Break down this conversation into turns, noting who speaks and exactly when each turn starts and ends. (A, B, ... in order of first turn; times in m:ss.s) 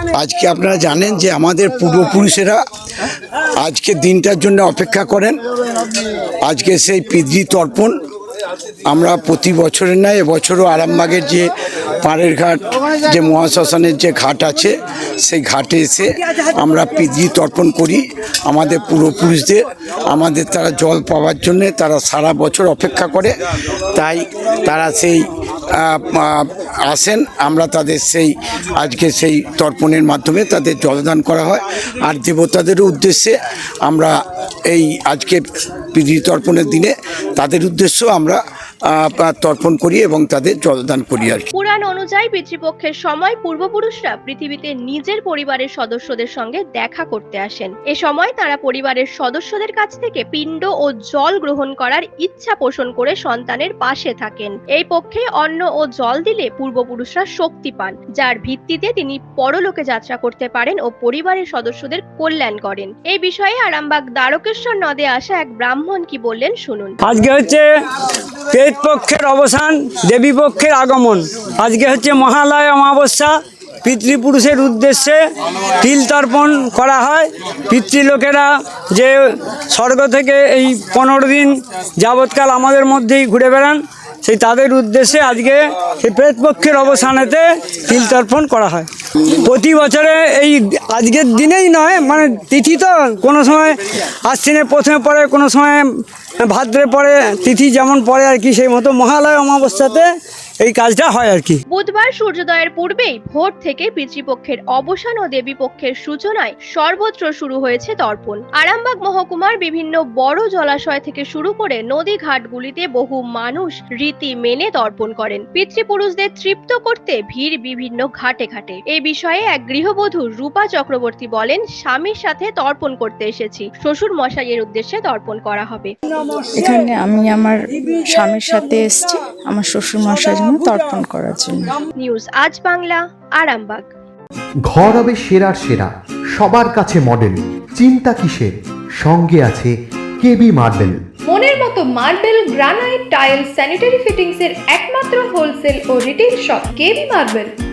0:00.2-0:02.6 A
0:03.6-0:05.4 A
0:06.4-0:07.9 A
0:08.9-0:11.5 A
0:12.0-0:23.3 A
0:24.0-0:33.3 A
0:33.9-0:34.1 A
0:34.7-0:35.4 A
0:35.9-0:41.5 A
0:41.6-1:07.0 B
1:07.0-1:07.7 C
1:08.5-1:15.2 C
1:15.8-1:35.8 C
1:36.4-1:40.1 C
1:40.6-1:41.6 C
1:41.7-2:05.9 B
2:06.5-2:11.7 D
2:12.0-2:13.8 B
2:14.7-2:21.0 E
2:21.3-2:27.5 F